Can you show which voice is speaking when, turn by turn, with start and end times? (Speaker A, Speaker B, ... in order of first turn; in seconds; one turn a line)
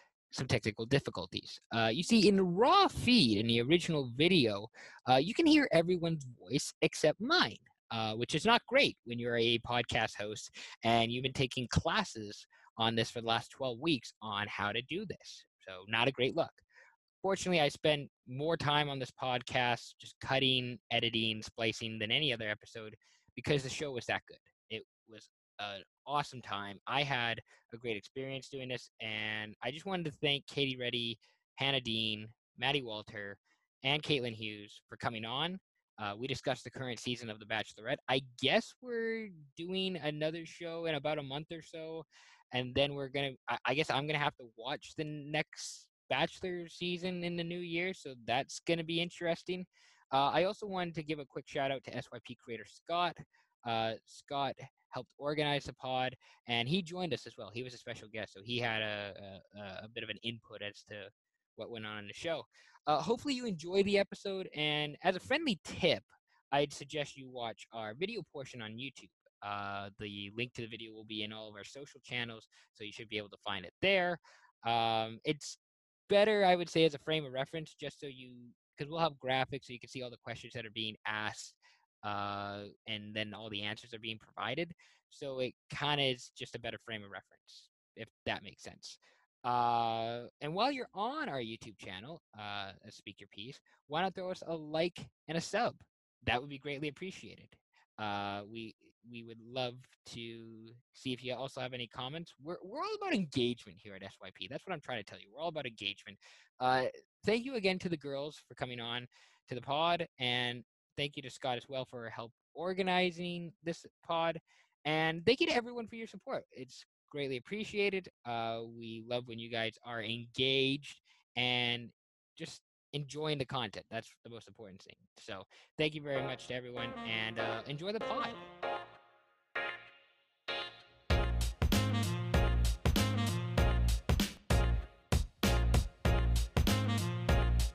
Speaker A: 0.3-16.6
Speaker A: 17.2-128.4